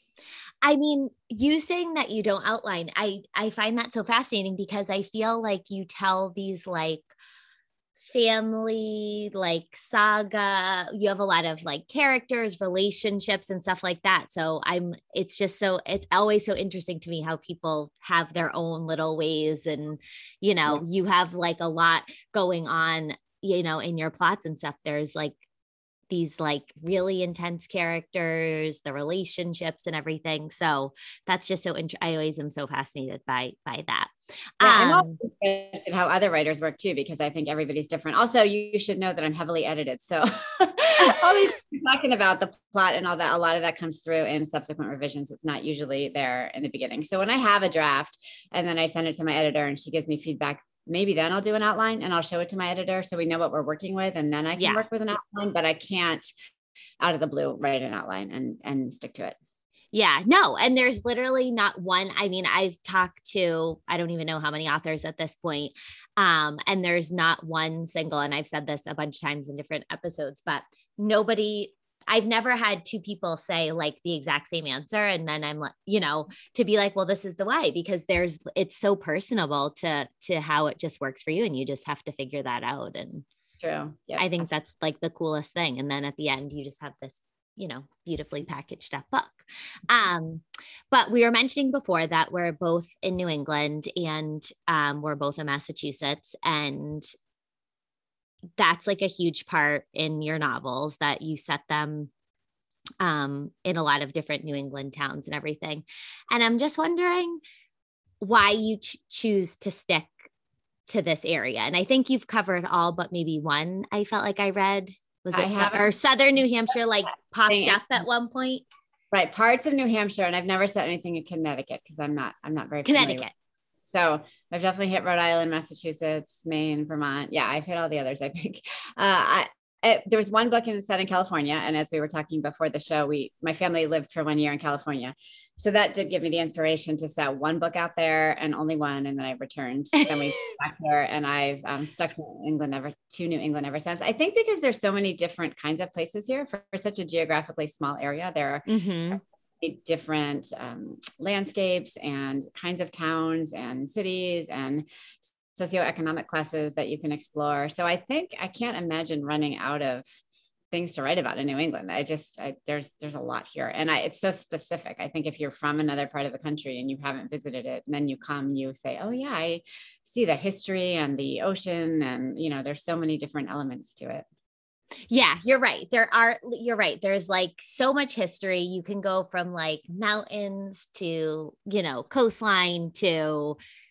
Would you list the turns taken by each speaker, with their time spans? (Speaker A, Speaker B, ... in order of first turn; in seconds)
Speaker A: 0.6-7.1, 8.1-25.4, 26.1-35.2, 54.6-54.9, 59.9-83.2, 84.2-97.1, 98.6-102.1, 103.0-107.4, 108.2-110.3, 110.9-118.6, 122.8-123.3, 140.0-140.5, 148.7-149.2, 175.1-183.6
Speaker B: 34.6-56.3, 57.0-59.4, 83.6-84.5, 115.3-115.9, 117.5-117.8, 119.1-123.2, 123.8-148.7, 149.6-160.1, 160.7-174.2